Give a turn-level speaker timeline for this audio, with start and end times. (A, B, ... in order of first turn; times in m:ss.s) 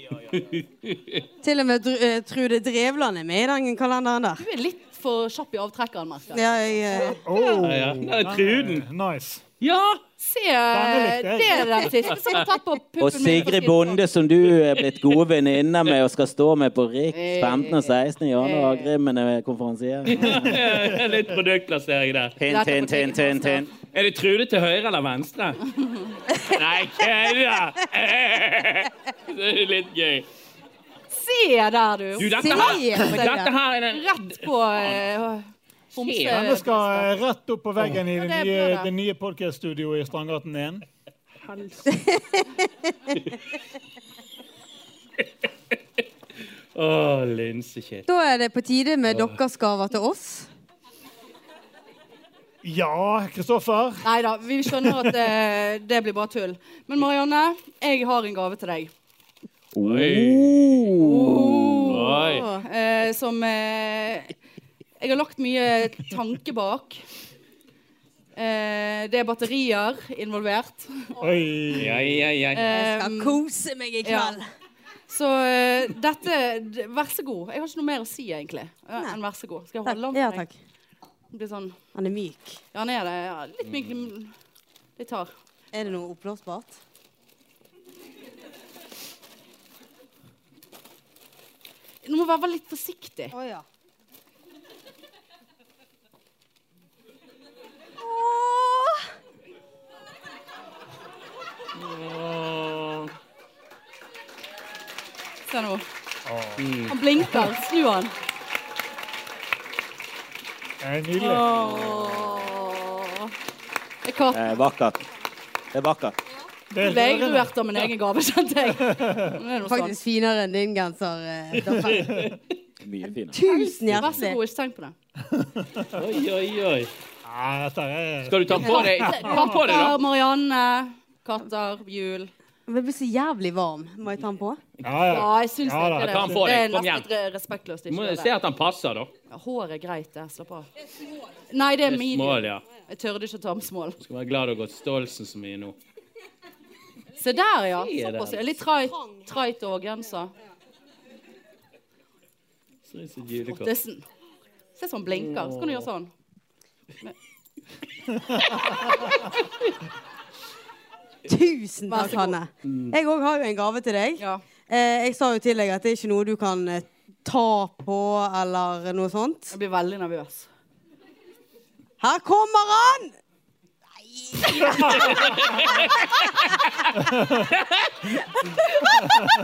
0:00.1-0:01.2 A
0:01.4-0:04.4 B
0:04.4-0:07.6 C
0:06.3-0:07.2 B
0:07.2-0:09.4 D
0:07.6-0:08.9 A
0:09.6-0:10.0 A
0:10.2-0:14.0 C
0:10.7-0:11.9 D
0:13.0-0:20.7 E
0:17.1-0:18.9 C
0:20.1-0:22.4 A
0:20.2-0:21.0 D
0:22.4-0:23.7 E
0:22.5-0:23.7 C
0:23.9-0:25.7 A
0:26.4-0:30.3 A
0:31.1-0:37.1 C
0:32.2-0:34.5 A
0:32.3-0:33.5 B
0:36.0-0:36.5 A
0:36.3-0:40.8 D
0:38.1-0:38.9 C
0:41.4-0:42.0 A
0:41.9-0:42.4 B
0:46.7-0:48.1 A
0:48.1-0:50.5 B
0:49.1-0:49.4 A
0:52.6-0:54.1 D
0:54.0-0:58.9 C
0:54.7-0:55.1 D
0:59.7-1:01.9 E
0:59.8-1:00.8 A
1:01.0-1:04.4 C
1:01.8-1:02.5 A
1:02.2-1:02.6 B
1:05.0-1:07.0 C
1:08.4-1:11.2 C
1:11.2-1:12.2 D
1:11.7-1:12.7 A
1:12.5-1:13.4 C
1:12.7-1:14.5 B
1:14.0-1:14.4 C
1:15.1-1:20.5 C
1:19.8-1:20.5 B
1:21.3-1:21.8 C
1:22.0-1:22.6 B
1:22.7-1:24.3 C
1:25.0-1:25.3 C
1:25.7-1:26.8 B
1:32.0-1:33.4 C
1:33.3-1:33.6 B
1:38.0-1:39.1 B
1:41.7-1:43.1 A
1:45.5-1:45.8 C
1:46.3-1:46.7 D
1:46.6-1:47.0 A
1:46.9-1:48.1 C
1:50.8-1:51.5 D
1:51.2-1:53.3 C
1:51.3-1:51.6 A
1:54.0-1:54.6 C
1:54.3-1:55.0 E
1:55.7-1:56.2 E
1:56.7-1:57.5 D
1:56.8-2:00.0 C
1:58.8-1:59.4 D
1:59.6-2:02.3 B
2:01.7-2:02.3 A
2:01.7-2:02.2 D
2:02.8-2:03.4 E
2:03.0-2:04.4 B
2:03.9-2:05.0 C
2:05.3-2:06.0 D
2:06.0-2:06.9 A
2:07.2-2:09.4 D
2:08.3-2:10.0 A
2:08.6-2:12.3 C
2:12.7-2:14.6 B
2:14.8-2:15.3 A
2:14.8-2:16.3 D
2:15.1-2:18.3 C
2:16.0-2:17.1 A
2:17.9-2:19.1 A
2:19.3-2:20.7 C
2:21.5-2:24.0 C
2:21.9-2:22.6 A
2:24.0-2:25.8 A
2:27.2-2:30.3 C
2:27.8-2:28.6 A
2:32.9-2:33.7 A
2:33.5-2:34.1 C
2:34.8-2:36.1 C
2:35.2-2:35.9 A
2:41.3-2:49.6 B
2:41.9-2:42.4 C
2:42.6-2:43.0 A
2:49.5-2:50.5 C
2:52.0-2:53.2 B
2:54.3-2:55.1 B
2:54.6-2:54.9 C
2:55.0-2:56.7 A
2:57.1-2:57.4 D
2:57.5-2:58.0 A
2:58.5-2:59.2 C